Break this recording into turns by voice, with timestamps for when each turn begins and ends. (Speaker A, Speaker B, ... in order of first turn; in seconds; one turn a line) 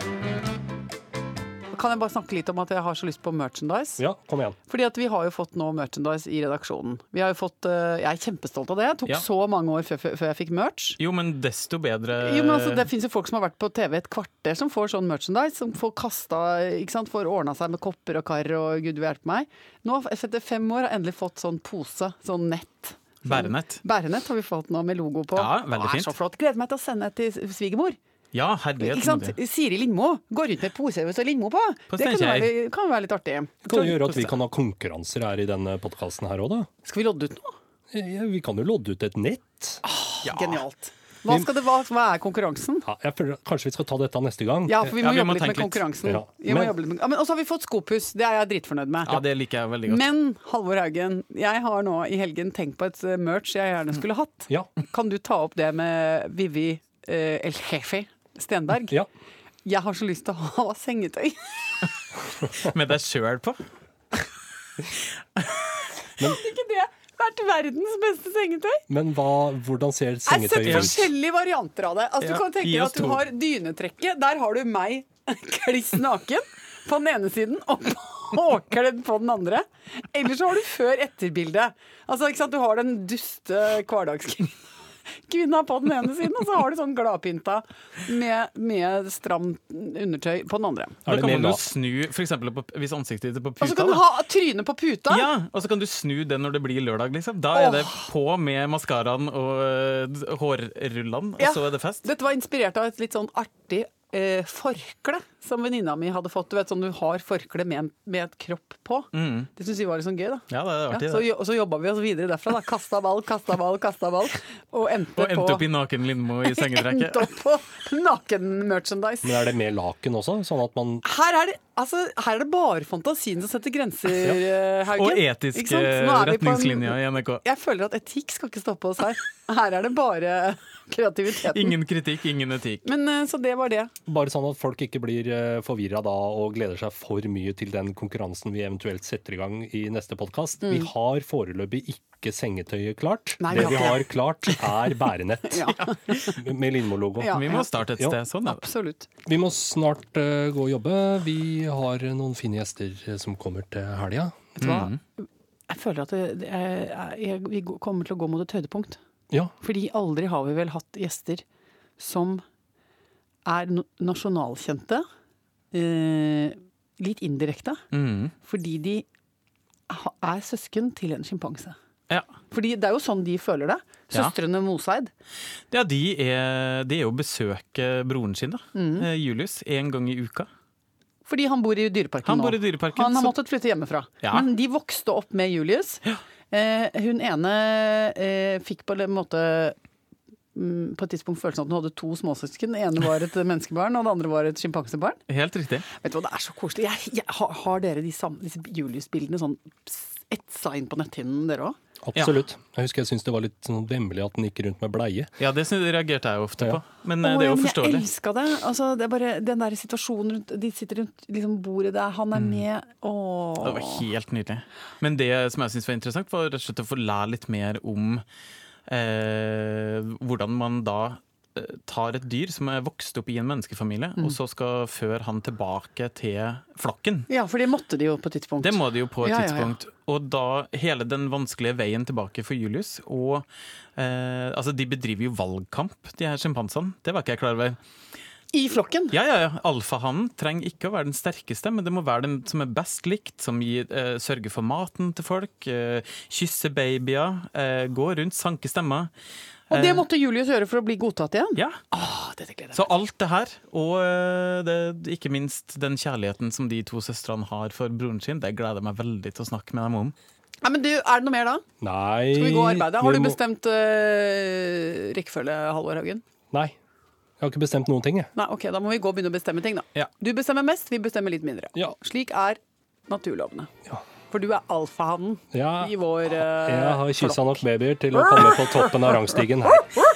Speaker A: 1.7-4.0
Speaker B: 4.0-4.6
Speaker A: 4.7-11.0
Speaker C: 11.0-12.9
Speaker A: 12.1-28.0
Speaker C: 23.2-23.8
Speaker C: 25.4-26.1
Speaker C: 28.3-29.4
Speaker A: 28.8-34.3
Speaker C: 31.9-32.5
Speaker B: 33.6-36.7
Speaker A: 36.8-37.5
Speaker B: 37.9-39.8
Speaker A: 39.8-42.9
Speaker C: 40.2-40.6
Speaker B: 42.9-44.9
Speaker A: 44.7-49.2
Speaker C: 45.0-45.9
Speaker B: 46.0-46.7
Speaker C: 49.1-50.1
Speaker A: 49.9-59.0
Speaker A: 59.7-61.9
Speaker C: 62.5-63.6
Speaker A: 66.2-68.8
Speaker B: 68.9-71.1
Speaker A: 70.3-84.6
Speaker C: 70.7-71.0
Speaker C: 72.2-73.2
Speaker A: 85.3-91.1
Speaker B: 91.1-91.6
Speaker C: 91.1-94.0
Speaker A: 93.6-95.3
Speaker C: 95.1-102.0
Speaker A: 97.5-98.0
Speaker A: 101.4-115.7
Speaker C: 109.1-109.5
Speaker C: 110.5-111.3
Speaker C: 115.2-117.3
Speaker A: 116.5-119.4
Speaker B: 119.2-121.0
Speaker A: 121.0-131.8
Speaker C: 124.9-127.4
Speaker C: 131.5-132.8
Speaker A: 132.8-133.9
Speaker B: 134.1-147.4
Speaker A: 143.4-144.9
Speaker A: 145.5-146.4
Speaker A: 147.2-147.7
Speaker C: 147.3-148.6
Speaker A: 148.5-149.1
Speaker B: 149.3-154.6
Speaker A: 154.6-159.0
Speaker C: 154.6-155.0
Speaker A: 159.6-161.4
Speaker A: 162.0-162.4
Speaker A: 163.4-165.1
Speaker A: 165.7-167.8
Speaker C: 167.9-168.3
Speaker A: 168.4-169.1
Speaker A: 169.9-171.8
Speaker A: 172.5-175.1
Speaker C: 175.7-180.5
Speaker A: 178.8-179.1
Speaker A: 181.3-189.8
Speaker C: 182.2-183.3
Speaker A: 190.6-195.2
Speaker C: 195.3-195.8
Speaker A: 195.9-201.8
Speaker B: 202.0-205.3
Speaker C: 205.4-208.1
Speaker A: 207.2-214.0
Speaker C: 212.3-212.6
Speaker C: 213.6-218.2
Speaker C: 218.9-227.3
Speaker A: 227.3-229.8
Speaker C: 228.6-233.5
Speaker C: 234.0-237.8
Speaker A: 238.5-239.2
Speaker C: 239.1-249.1
Speaker A: 249.7-252.9
Speaker C: 249.7-250.1
Speaker C: 252.8-260.1
Speaker A: 260.6-261.6
Speaker B: 261.8-263.4
Speaker A: 262.3-266.2
Speaker B: 267.4-268.3
Speaker A: 268.4-273.7
Speaker A: 274.3-277.6
Speaker B: 275.5-279.9
Speaker A: 278.2-278.9